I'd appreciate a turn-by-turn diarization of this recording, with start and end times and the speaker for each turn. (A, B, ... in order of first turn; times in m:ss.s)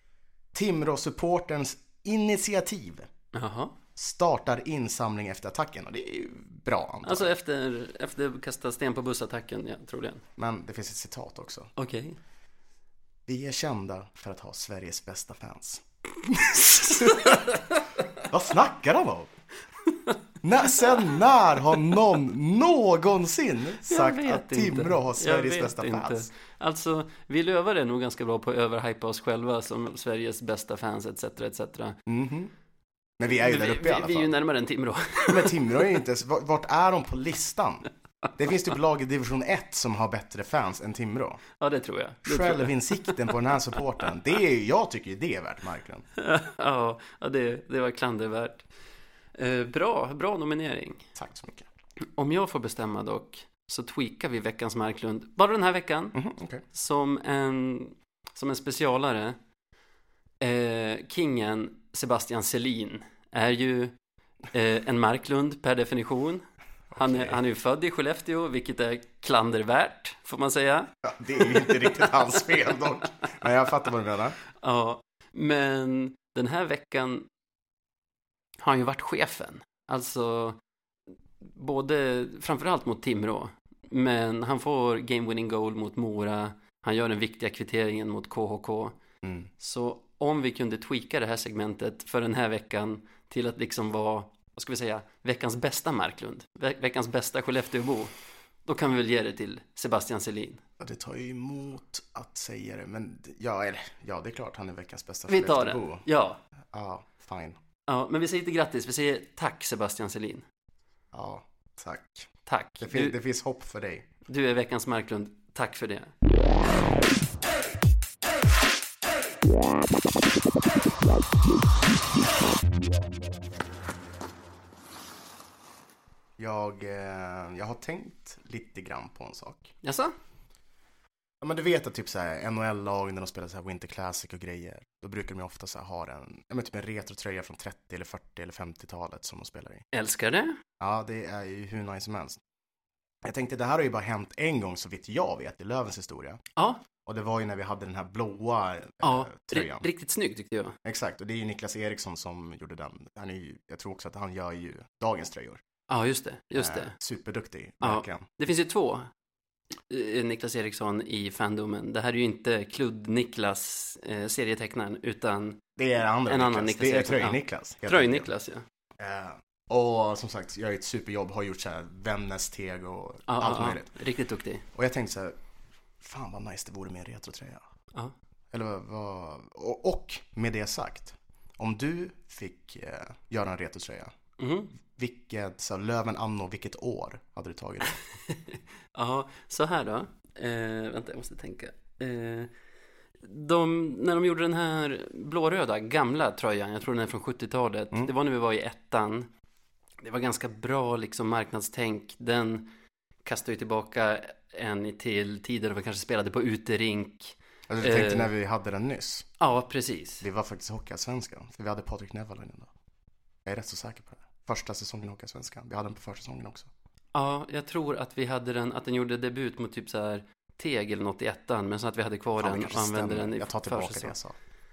0:00.5-0:03.1 A
0:03.3-0:03.8 B
0:04.0-0:07.3 A
0:07.0-0:10.2 B
0:10.4-0:11.7 A
0:11.8-0:12.2 B
0:13.3-0:17.6 A
0:16.7-0:17.8 B
0:18.2-0:19.3 A
0:20.4-0:26.3 A
0:23.9-0:32.0 B
0:32.1-0:32.5 A
0:33.2-0:34.3 A
0:33.3-0:35.8 B
0:35.3-0:37.9 A
0:38.4-0:41.4 A
0:41.6-0:43.2 B
0:42.2-0:46.1 A
0:46.2-0:48.7 B
0:49.4-0:51.1 B
0:51.2-0:51.7 A
0:52.2-0:56.2 B
0:56.2-0:56.6 A
0:56.7-0:59.4 B
1:00.4-1:04.0 B
1:04.5-1:12.1 B
1:06.9-1:07.4 A
1:11.0-1:14.4 A
1:14.6-1:17.3 B
1:18.6-1:20.6 B
1:21.4-1:29.0 B
1:29.2-1:29.5 A
1:29.6-1:38.1 B
1:38.7-1:40.6 B
1:40.8-1:46.0 A
1:45.3-1:46.4 B
1:46.7-1:47.6 A
1:47.9-1:50.4 B
1:51.1-1:52.3 A
1:52.5-1:53.2 B
1:52.8-1:54.1 A
1:54.3-1:56.1 B
2:06.4-2:09.7 A
2:09.8-2:10.1 B
2:11.4-2:19.8 A
2:19.9-2:20.6 B
2:20.8-2:22.4 A
2:23.2-2:26.4 A
2:26.6-2:26.8 B
2:27.0-2:29.9 A
2:29.0-2:30.8 B
2:30.8-2:35.6 A
2:35.9-2:36.9 B
2:36.6-2:38.3 A
2:37.8-2:39.1 B
2:39.9-2:45.6 B
2:45.8-2:48.3 A
2:46.3-2:48.6 B
2:49.0-2:53.9 A
2:53.3-2:54.6 B
2:54.7-2:55.3 A
2:56.0-2:57.6 A
2:58.5-3:04.1 A
3:04.4-3:04.8 B
3:04.9-3:08.0 A
3:08.3-3:12.5 B
3:13.2-3:19.3 B
3:20.0-3:22.7 B
3:23.2-3:28.3 B
3:27.7-3:29.3 A
3:29.4-3:30.2 B
3:30.2-3:32.7 A
3:33.4-3:36.7 A
3:37.2-3:44.2 B
3:42.4-3:44.4 A